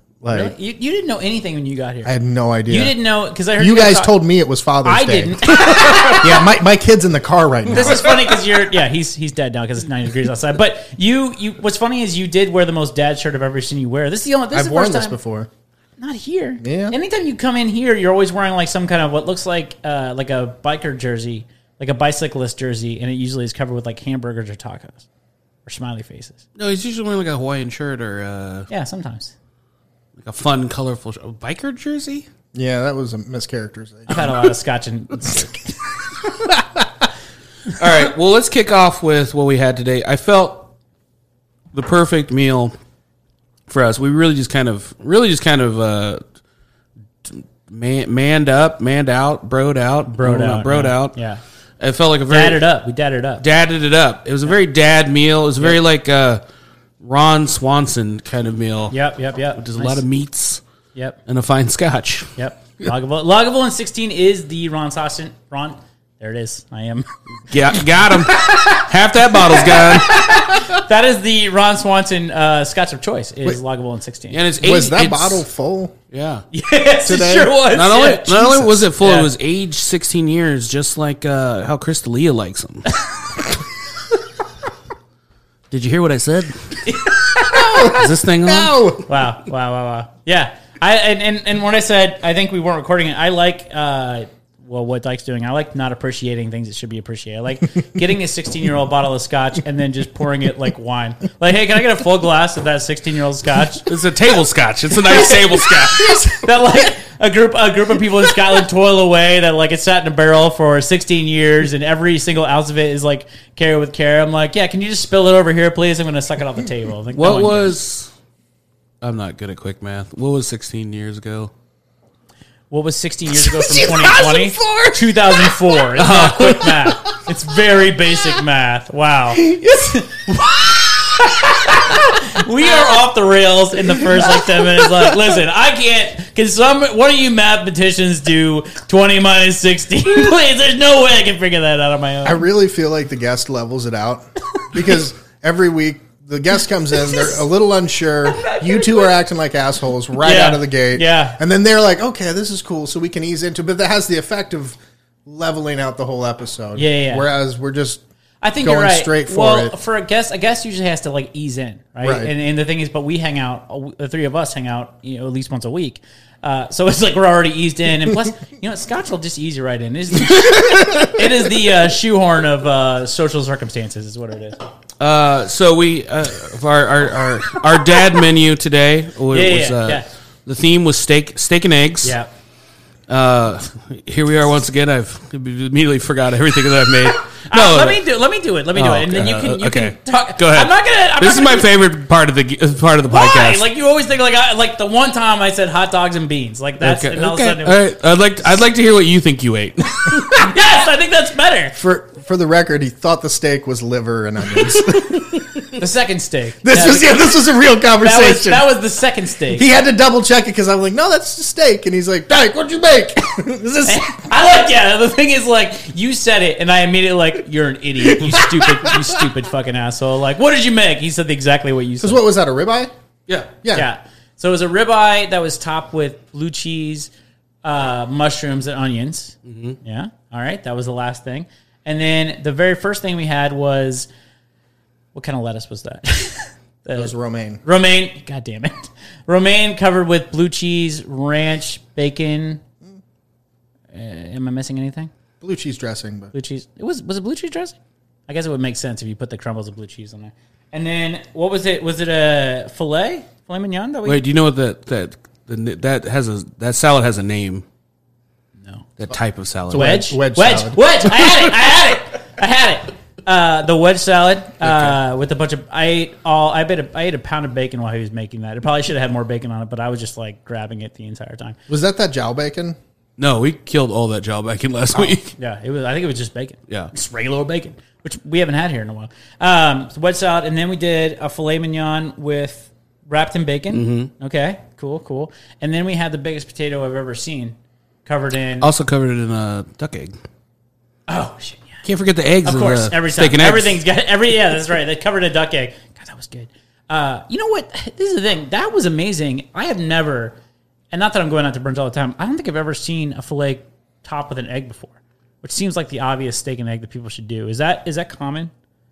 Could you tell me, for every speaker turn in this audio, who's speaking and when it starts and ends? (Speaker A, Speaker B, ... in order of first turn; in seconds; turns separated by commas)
Speaker A: 0.2-0.5, Speaker B: 0.3-2.1, Speaker A: 2.0-3.0, Speaker B: 2.7-4.1, Speaker A: 3.6-8.4, Speaker B: 4.8-6.5, Speaker B: 7.7-15.2, Speaker A: 14.5-15.5, Speaker B: 16.0-25.0, Speaker A: 16.6-16.9, Speaker B: 25.6-26.4, Speaker C: 26.6-28.7, Speaker B: 28.7-29.3, Speaker C: 30.2-32.3, Speaker A: 32.5-34.4, Speaker B: 34.1-35.8, Speaker C: 37.7-40.7, Speaker C: 41.7-42.7, Speaker C: 43.7-46.2, Speaker C: 47.2-51.1, Speaker B: 50.1-51.4, Speaker C: 51.8-52.6, Speaker B: 52.3-53.4, Speaker C: 53.4-56.4, Speaker C: 57.0-59.0, Speaker B: 58.9-60.0, Speaker C: 59.5-60.6, Speaker C: 61.3-62.3, Speaker B: 62.4-67.1, Speaker C: 67.5-70.3, Speaker B: 68.3-68.8, Speaker B: 69.5-74.4, Speaker C: 74.3-75.5, Speaker A: 74.6-75.9, Speaker C: 76.1-76.4, Speaker B: 76.5-79.3, Speaker A: 77.0-77.6, Speaker C: 77.7-82.9, Speaker C: 85.7-86.9, Speaker B: 86.9-88.0, Speaker A: 87.4-89.0, Speaker C: 87.8-89.0, Speaker B: 89.1-103.9, Speaker C: 103.9-106.3, Speaker B: 105.0-117.7, Speaker C: 117.1-118.1, Speaker C: 119.0-121.5, Speaker B: 122.7-142.4, Speaker A: 123.6-125.0, Speaker C: 126.0-126.8, Speaker A: 142.2-158.0, Speaker B: 148.3-149.1, Speaker B: 150.2-151.4, Speaker B: 156.8-157.2, Speaker B: 158.4-174.6, Speaker A: 158.6-159.7, Speaker A: 162.0-162.3, Speaker C: 175.0-182.1, Speaker B: 179.3-180.0, Speaker B: 182.0-182.3, Speaker C: 183.1-188.0, Speaker B: 187.1-191.7, Speaker C: 188.7-193.7, Speaker B: 193.1-197.8, Speaker C: 196.8-200.5, Speaker B: 200.3-201.7, Speaker A: 201.8-205.8, Speaker B: 205.8-207.4, Speaker A: 206.6-208.7, Speaker B: 208.0-209.7, Speaker A: 209.5-214.1, Speaker B: 213.8-222.2, Speaker A: 218.3-218.9, Speaker A: 222.0-222.9, Speaker A: 223.6-223.9, Speaker B: 223.7-227.1, Speaker B: 227.6-234.1, Speaker C: 229.4-229.8, Speaker B: 235.1-237.1, Speaker A: 236.9-237.6, Speaker B: 237.6-242.6, Speaker B: 243.9-245.1, Speaker A: 245.4-246.3, Speaker B: 246.3-247.8, Speaker B: 248.3-254.2, Speaker C: 254.0-257.6, Speaker B: 258.6-258.9, Speaker C: 259.0-260.0, Speaker A: 259.7-261.5, Speaker B: 259.7-271.6, Speaker C: 264.7-264.9, Speaker A: 271.7-272.8, Speaker C: 273.2-275.3, Speaker B: 274.9-287.5, Speaker C: 283.7-284.1, Speaker B: 288.1-288.7, Speaker C: 288.6-290.1, Speaker B: 291.1-291.8, Speaker C: 291.8-293.8, Speaker B: 292.4-300.4, Speaker B: 300.9-308.5